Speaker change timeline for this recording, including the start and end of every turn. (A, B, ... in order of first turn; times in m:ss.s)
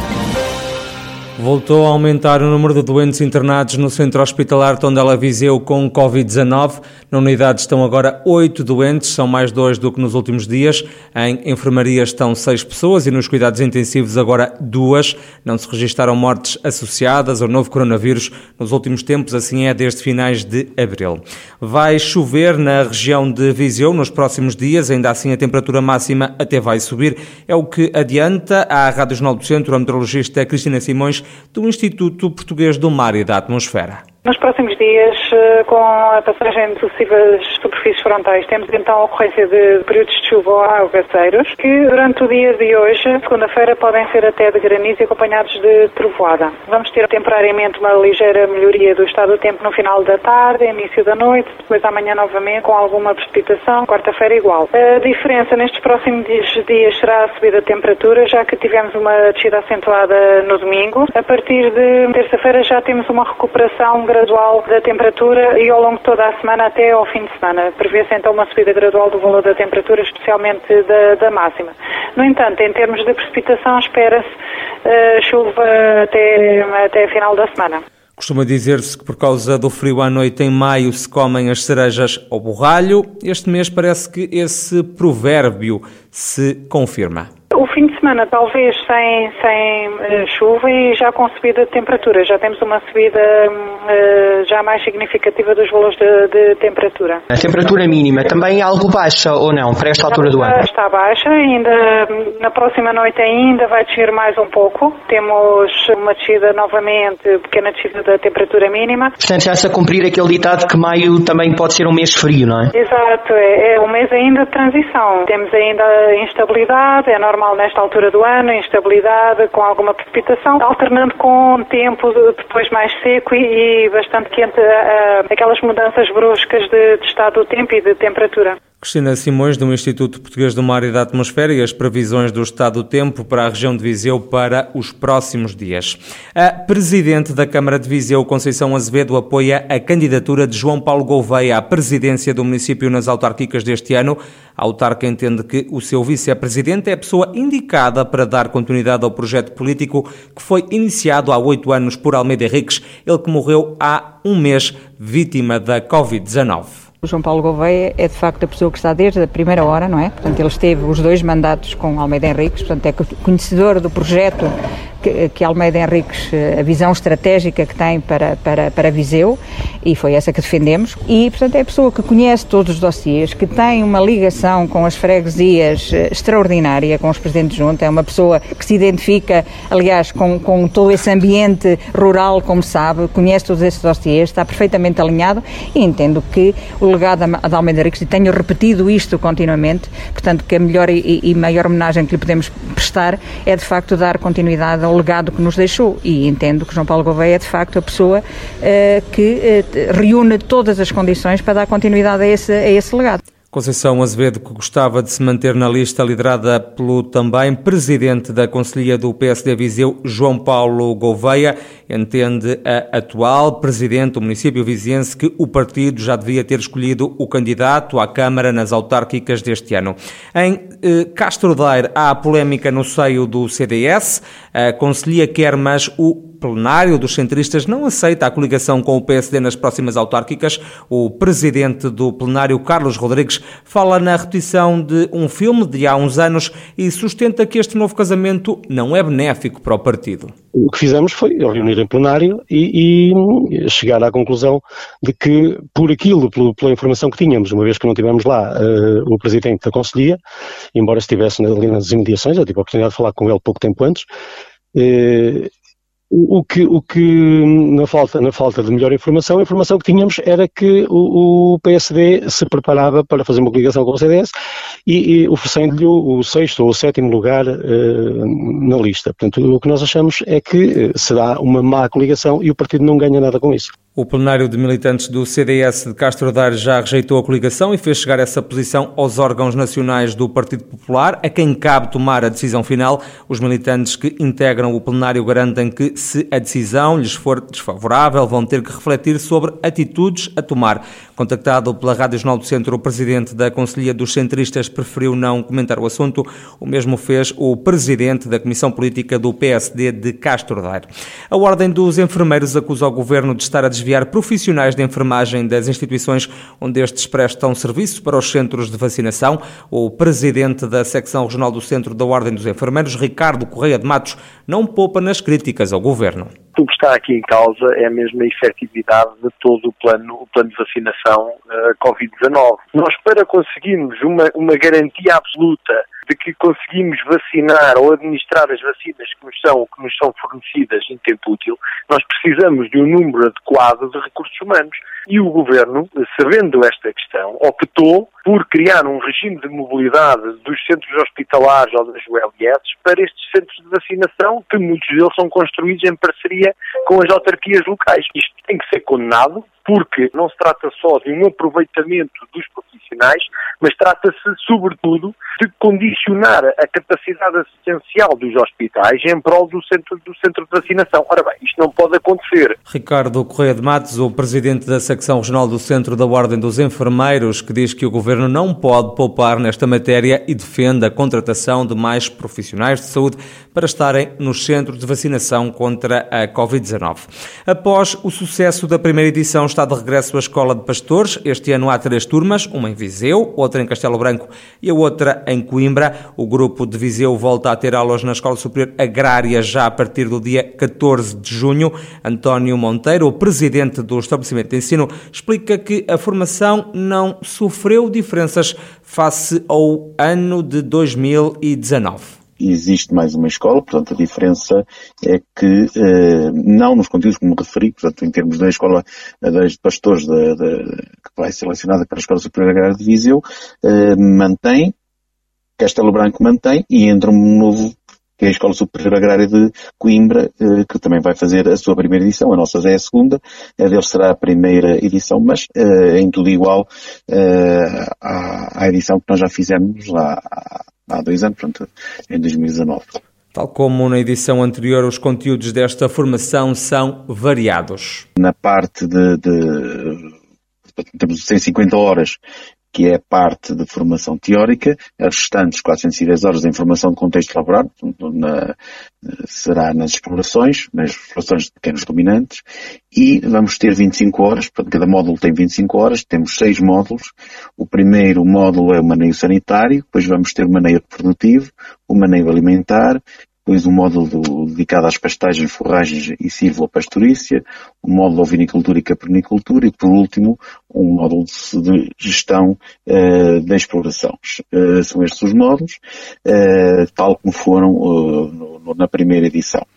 0:01.4-0:34.0 A
0:34.2-1:14.3 B
1:14.8-1:17.8 B
1:18.2-1:27.3 A
1:27.5-1:37.2 B
1:37.3-1:40.5 C
1:40.1-1:49.1 B
1:49.2-1:52.7 C
1:52.7-2:08.6 B
2:08.8-2:36.8 A
2:37.0-3:23.2 D
3:23.5-4:00.3 A
4:00.7-4:10.2 E
4:10.7-4:14.1 E
4:14.7-4:15.5 E
4:16.1-4:24.3 E
4:24.8-4:33.7 E
4:34.0-5:16.3 A
5:16.6-6:02.6 F
6:02.7-6:42.1 A
6:42.4-6:54.7 G
6:55.6-7:12.9 G
7:13.3-7:18.0 A
7:18.2-7:20.1 G
7:20.8-7:22.2 G
7:22.7-7:28.5 G
7:29.1-7:59.6 G